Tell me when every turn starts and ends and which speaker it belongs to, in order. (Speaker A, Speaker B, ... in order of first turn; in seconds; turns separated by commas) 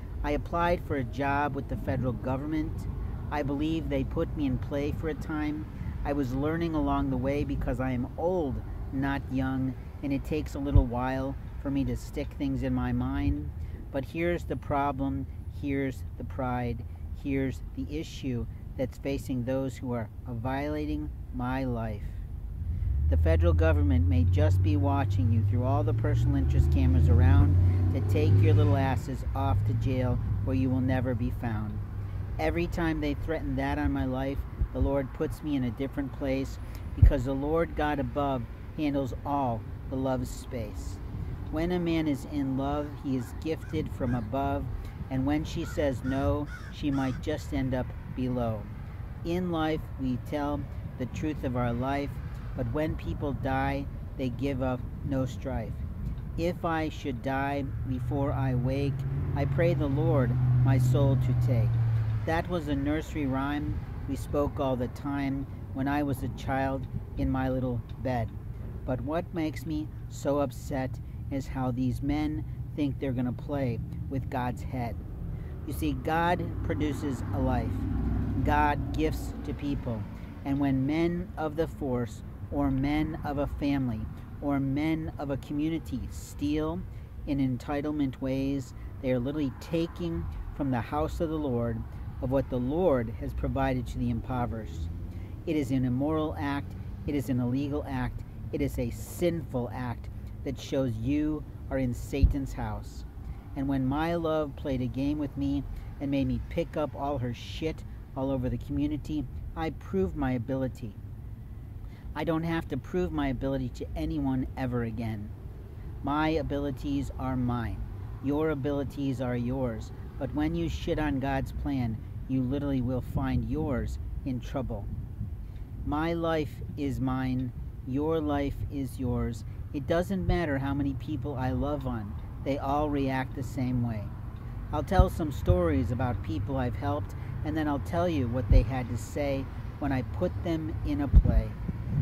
Speaker A: 0.2-22.2, Speaker A: 23.1-31.8, Speaker A: 32.4-48.7, Speaker A: 49.2-55.8, Speaker A: 56.4-75.0, Speaker A: 75.7-94.9, Speaker A: 95.5-111.0, Speaker A: 112.2-115.3, Speaker A: 116.0-124.9, Speaker A: 125.8-134.1, Speaker A: 134.7-141.6